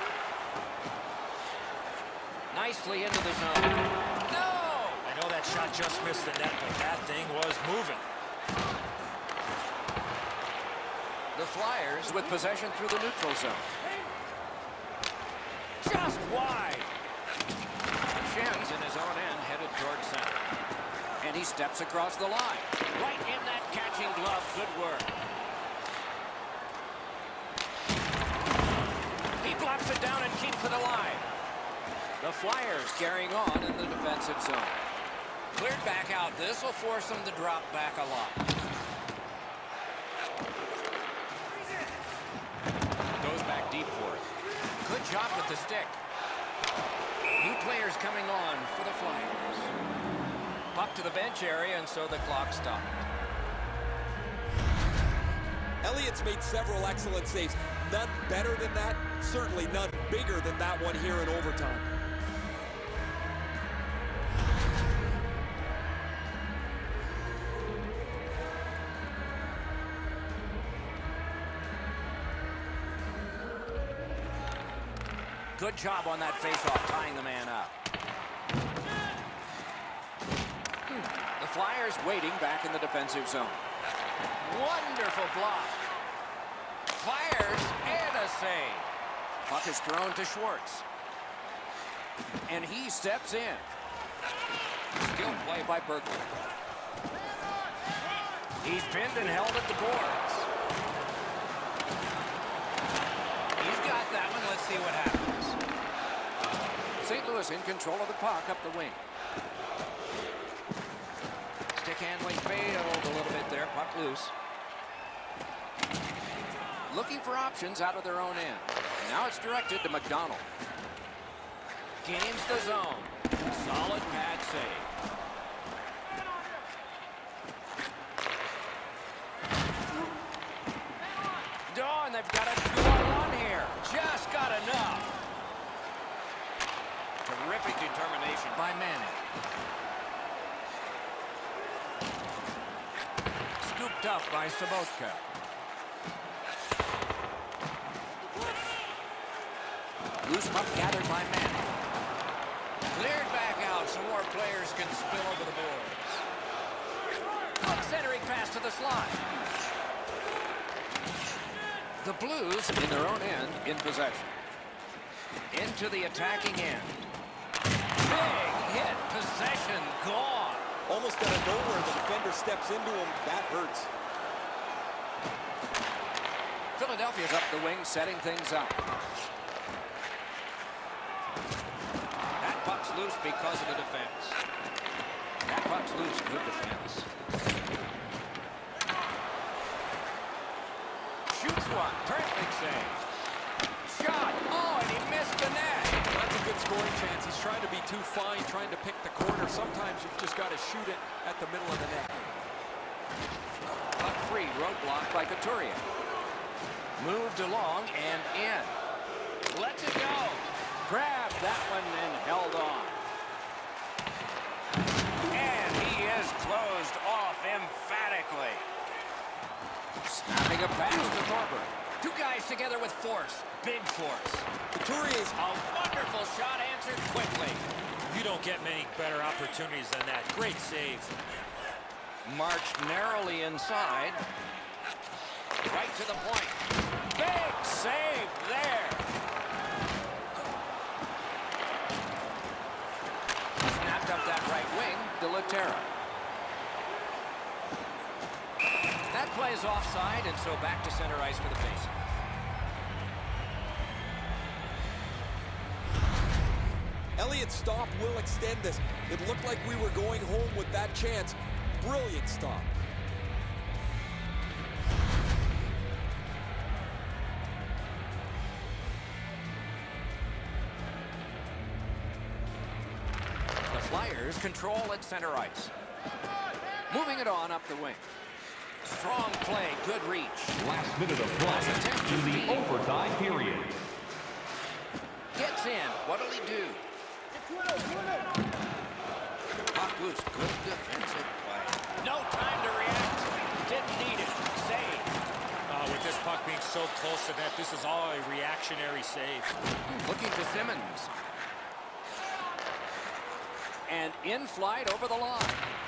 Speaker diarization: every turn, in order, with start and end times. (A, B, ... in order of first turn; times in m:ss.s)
0:02.5-0:05.1 A
0:05.0-0:08.0 B
0:11.3-0:13.7 A
0:15.8-0:16.9 A
0:18.1-0:20.4 A
0:21.2-0:25.2 A
0:29.4-0:31.3 A
0:32.2-0:34.8 A
0:35.5-0:38.4 A
0:43.2-0:44.3 A
0:44.8-0:46.0 A
0:47.4-0:49.7 A
0:50.7-0:53.1 A
0:55.8-1:01.9 C
1:15.5-1:17.7 A
1:20.9-1:23.6 A
1:24.4-1:25.8 A
1:26.9-1:28.9 A
1:29.4-1:30.8 A
1:32.5-1:33.7 A
1:35.0-1:36.3 A
1:38.6-1:40.5 A
1:43.6-1:45.6 A
1:47.0-1:49.0 A
1:51.7-1:54.3 A
1:56.9-2:00.5 A
2:02.0-2:04.9 A
2:11.7-2:15.1 A
2:17.2-2:19.2 A
2:23.6-2:25.2 A
2:30.2-2:31.7 A
2:32.9-2:36.3 A
2:37.6-2:39.2 A
2:42.0-2:44.3 A
2:45.5-2:47.1 A
2:48.0-2:50.7 A
2:50.9-2:53.9 C
2:56.8-2:58.8 A
3:02.4-3:04.4 A
3:05.4-3:07.1 A
3:11.3-3:13.0 A
3:13.8-3:16.0 A
3:16.1-3:22.2 C
3:24.0-3:25.8 A
3:27.0-3:28.8 A
3:29.5-3:33.0 A
3:35.3-3:38.6 A
3:40.0-3:44.5 A
3:44.7-3:45.4 C
3:45.4-3:47.7 A
3:48.1-3:51.1 B
3:52.2-3:54.2 A
3:55.6-3:59.0 A
4:03.6-4:05.9 A
4:09.1-4:12.1 A
4:17.2-4:22.7 C
4:33.7-4:35.7 A
4:36.9-4:38.1 A
4:38.8-4:40.6 A
4:40.5-4:43.8 D
4:41.4-4:42.7 A
4:45.3-4:46.8 A
4:49.7-4:55.1 A
4:55.7-4:59.6 B
4:59.8-5:01.1 A
5:03.9-5:05.6 A